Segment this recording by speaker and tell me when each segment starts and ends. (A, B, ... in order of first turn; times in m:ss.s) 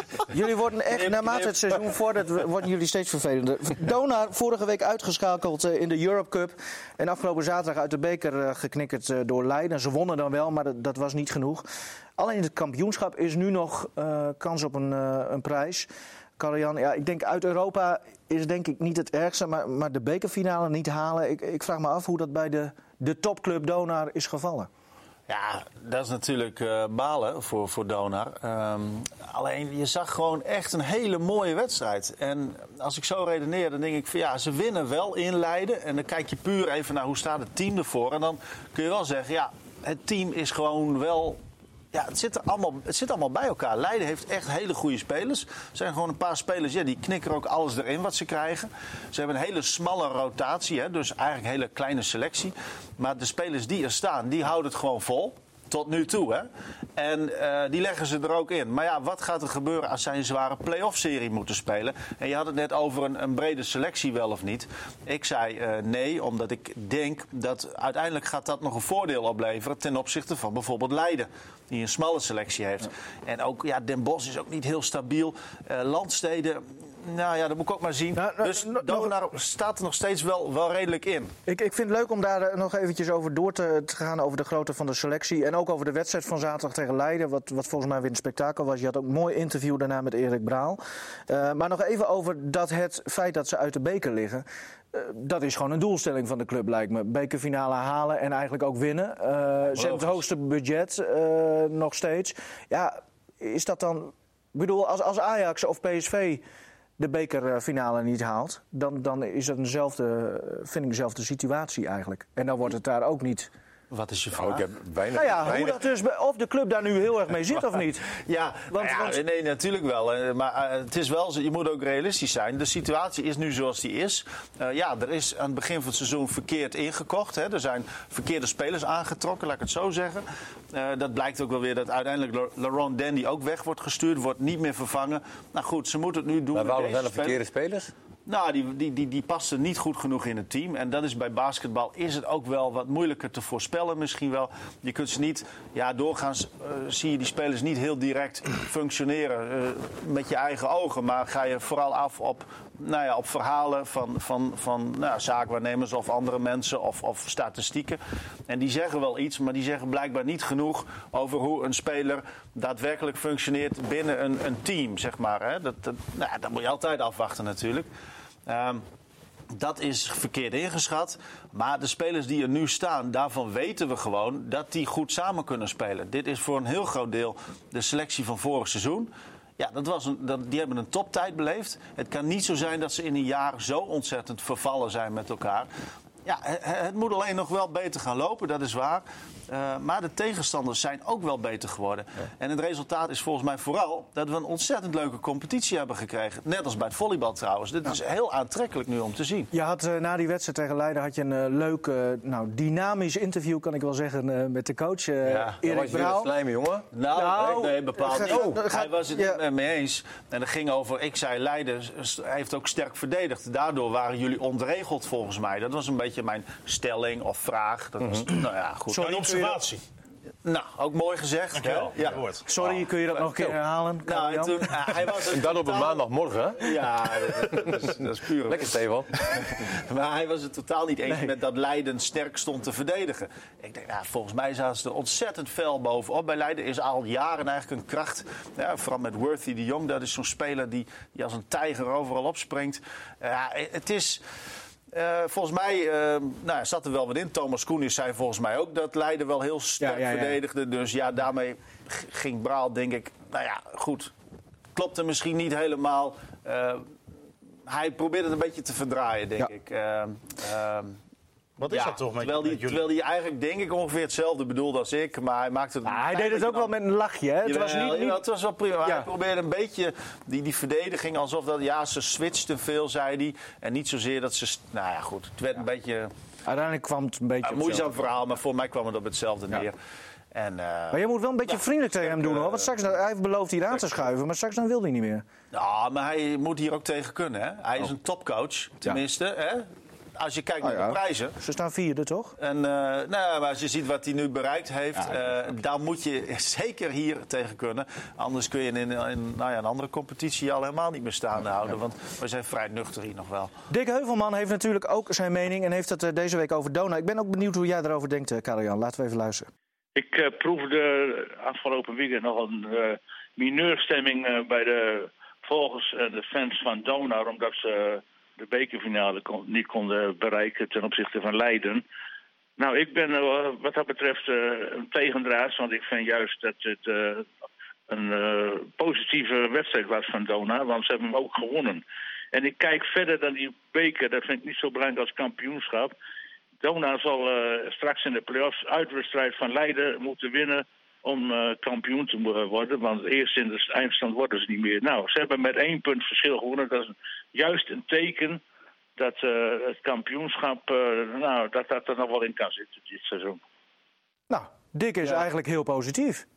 0:00.3-0:11.6 A
0:00.9-0:01.8 B
0:12.2-0:24.7 A
0:25.3-0:41.4 B
0:41.9-1:21.3 B
1:18.1-1:19.1 A
1:21.4-1:46.4 A
1:39.8-1:40.2 B
1:47.0-1:53.5 A
1:53.9-1:54.7 B
1:54.3-1:55.8 C
1:55.1-1:58.1 A
1:58.2-2:17.4 B
1:58.7-1:59.2 A
2:16.5-2:17.9 C
2:18.2-2:47.9 B
2:48.4-2:48.8 B
2:49.5-3:05.7 B
3:06.2-3:19.5 B
3:19.5-3:26.3 A
3:25.2-3:25.6 B
3:25.6-3:26.9 C
3:26.9-3:39.1 B
3:27.1-3:29.4 A
3:28.2-3:28.6 C
3:38.9-3:39.6 A
3:38.9-3:39.8 D
3:40.4-3:42.9 B
3:41.5-3:42.4 D
3:42.4-3:44.9 A
3:44.0-3:46.0 B
3:45.1-3:46.9 C
3:46.6-4:04.2 B
3:47.6-3:49.2 C
4:04.9-4:14.1 B
4:09.8-4:10.4 A
4:14.7-4:16.8 B
4:17.6-4:21.0 B
4:21.6-4:22.9 D
4:21.7-4:26.7 B
4:25.8-4:28.2 A
4:27.4-4:36.1 B
4:28.8-4:29.1 A
4:36.4-4:38.0 A
4:37.4-4:39.8 B
4:40.3-4:42.7 B
4:40.9-4:45.2 A
4:45.5-4:51.4 B
4:50.6-4:52.4 A
4:52.4-5:03.5 B
5:03.7-5:09.5 A
5:10.0-5:21.8 E
5:22.6-5:27.3 E
5:27.9-5:35.9 E
5:36.6-5:48.4 E
5:49.0-5:53.4 E
5:54.3-5:56.2 A